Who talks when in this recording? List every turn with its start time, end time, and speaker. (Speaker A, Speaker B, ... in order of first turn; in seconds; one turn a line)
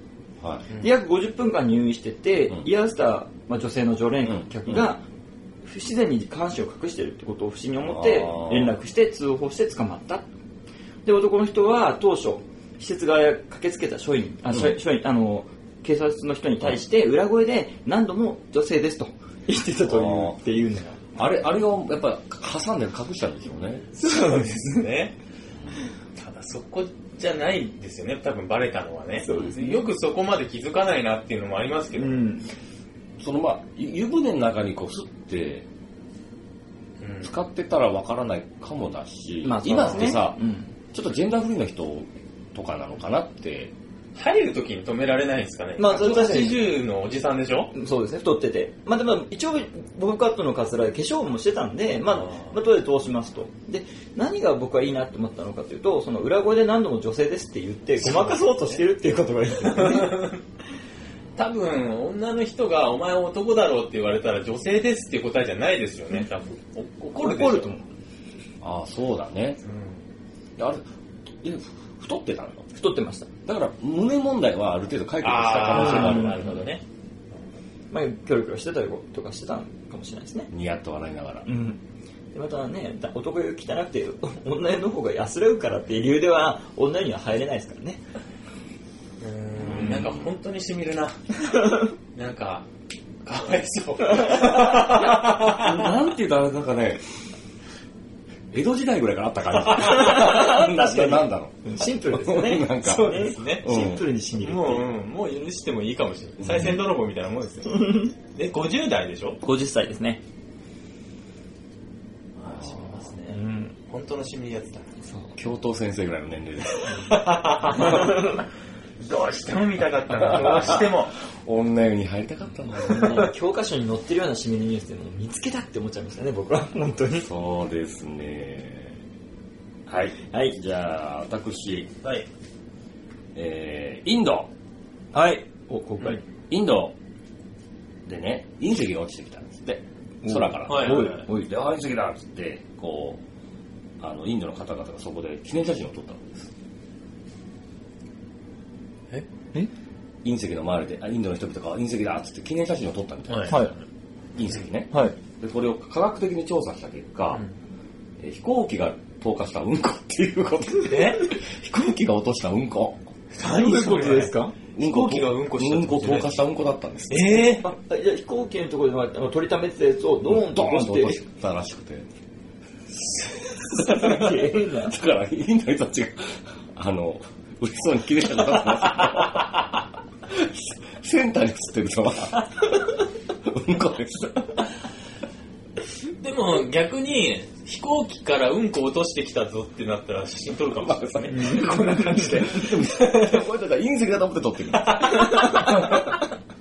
Speaker A: 0.4-0.7
Speaker B: 0.8-5.0
Speaker A: 4.2-4.9
Speaker B: 5.6-10.3
Speaker A: 7.8-8.7
Speaker B: 11.0-21.1
Speaker A: 14.5-14.8
Speaker A: 19.9-20.4
Speaker A: 21.1-23.9
Speaker B: 23.9-24.9
Speaker C: 24.0-25.1
Speaker C: 26.1-32.3
Speaker B: 29.2-29.8
Speaker B: 32.0-32.5
Speaker A: 33.2-35.7
Speaker C: 37.0-37.3
Speaker A: 37.2-40.4
Speaker B: 39.4-40.7
Speaker C: 39.7-40.1
Speaker A: 40.9-43.7
Speaker C: 44.1-47.7
Speaker B: 45.8-46.7
Speaker B: 47.7-60.3
Speaker C: 52.1-52.5
Speaker C: 58.0-58.8
Speaker C: 59.6-60.4
Speaker C: 61.4-67.7
Speaker B: 67.1-67.8
Speaker A: 68.6-69.6
Speaker C: 69.6-70.0
Speaker A: 70.6-70.9
Speaker A: 71.4-72.6
Speaker B: 72.7-73.3
Speaker A: 73.5-76.7
Speaker C: 75.2-76.8
Speaker B: 75.7-76.4
Speaker B: 77.9-80.5
Speaker A: 80.5-81.5
Speaker B: 81.5-81.8
Speaker B: 82.3-88.0
Speaker C: 89.2-92.7
Speaker A: 89.7-90.3
Speaker C: 93.2-95.9
Speaker A: 95.1-97.0
Speaker A: 98.5-104.1
Speaker C: 99.6-100.4
Speaker B: 99.8-104.9
Speaker C: 102.8-103.7
Speaker C: 104.4-109.4
Speaker A: 106.4-106.8
Speaker B: 107.7-108.1
Speaker B: 109.4-110.2
Speaker C: 112.4-114.9
Speaker B: 113.3-113.7
Speaker A: 115.3-117.2
Speaker C: 116.9-118.4
Speaker C: 119.0-121.1
Speaker A: 120.2-123.3
Speaker B: 122.8-127.3
Speaker A: 127.2-129.0
Speaker A: 129.9-131.9
Speaker B: 130.3-130.6
Speaker A: 133.3-134.5
Speaker B: 135.1-136.2
Speaker A: 136.5-136.9
Speaker A: 138.0-143.2
Speaker B: 140.2-141.5
Speaker C: 140.7-141.2
Speaker A: 144.0-146.5
Speaker A: 150.2-153.7
Speaker C: 153.3-153.7
Speaker B: 153.5-153.7
Speaker A: 154.3-157.4
Speaker A: 158.2-163.0
Speaker C: 160.8-161.3
Speaker C: 163.3-166.4
Speaker B: 163.4-164.5
Speaker A: 164.8-167.5
Speaker C: 167.1-167.7
Speaker B: 167.6-171.2
Speaker A: 170.2-172.1
Speaker B: 173.6-174.9
Speaker A: 173.8-179.7
Speaker A: 180.3-182.7
Speaker A: 183.4-184.5
Speaker C: 186.2-193.4
Speaker A: 190.8-196.1
Speaker B: 191.3-192.4
Speaker C: 194.7-195.9
Speaker B: 195.2-195.6